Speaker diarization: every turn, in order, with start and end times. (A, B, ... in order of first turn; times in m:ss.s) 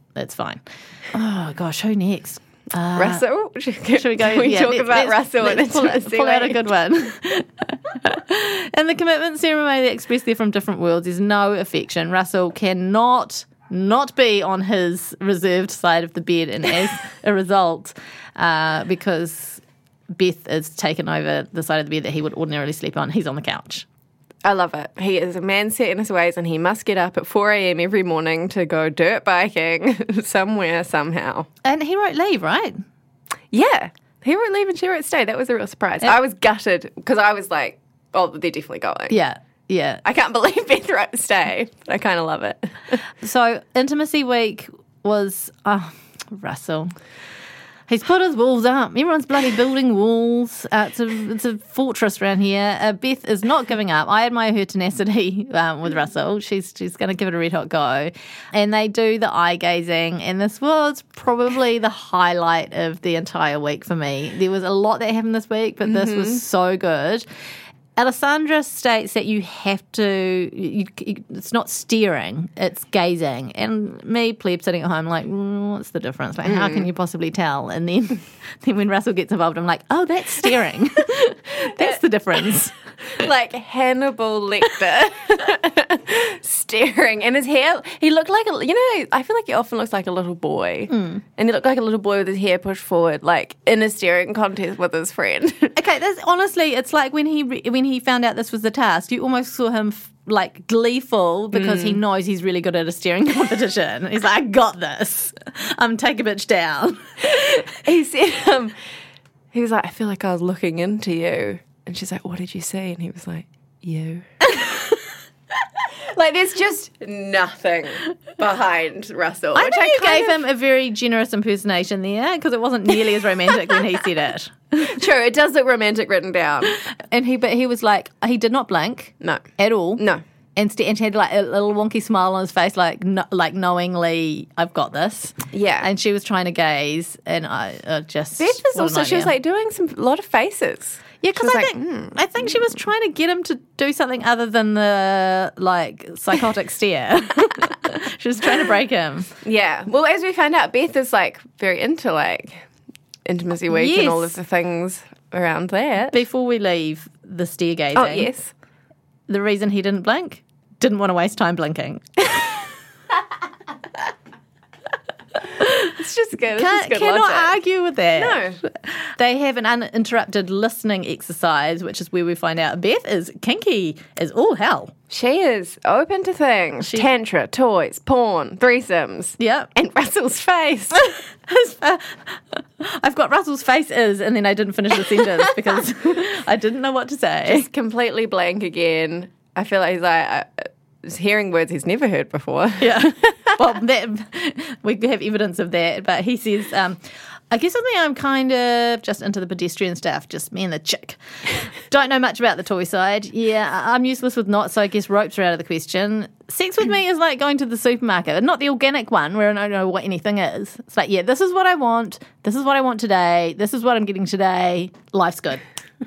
0:00.1-0:03.2 A
0:02.9-0:06.6 B
0:03.9-0:23.8 A
0:24.4-0:31.5 B
0:31.6-0:32.8 A
0:33.5-0:39.2 B
0:39.1-0:40.0 A
0:40.0-0:43.0 B
0:43.2-0:46.9 A
0:47.9-1:07.2 A
1:05.9-1:06.4 B
1:08.0-1:22.7 A
1:16.5-1:16.9 B
1:23.1-1:35.7 B
1:30.9-1:31.2 A
1:35.8-1:47.6 A
1:41.5-1:42.0 B
1:47.7-1:48.7 B
1:49.5-1:54.2 B
1:55.9-2:00.4 B
1:59.5-2:05.0 A
2:04.8-2:06.8 B
2:07.1-2:10.0 A
2:10.0-2:10.2 B
2:10.6-2:19.3 A
2:15.5-2:15.9 B
2:18.4-2:22.2 B
2:21.2-2:29.3 A
2:29.4-2:32.6 B
2:33.2-2:36.2 B
2:33.7-2:34.4 A
2:36.1-2:38.3 A
2:37.9-2:38.5 B
2:39.3-2:42.6 A
2:45.8-2:47.5 B
2:46.6-2:54.9 A
2:48.2-2:48.6 B
2:55.1-3:01.1 B
2:59.4-2:59.7 A
3:01.5-3:07.6 A
3:07.5-3:13.5 B
3:12.8-3:35.6 A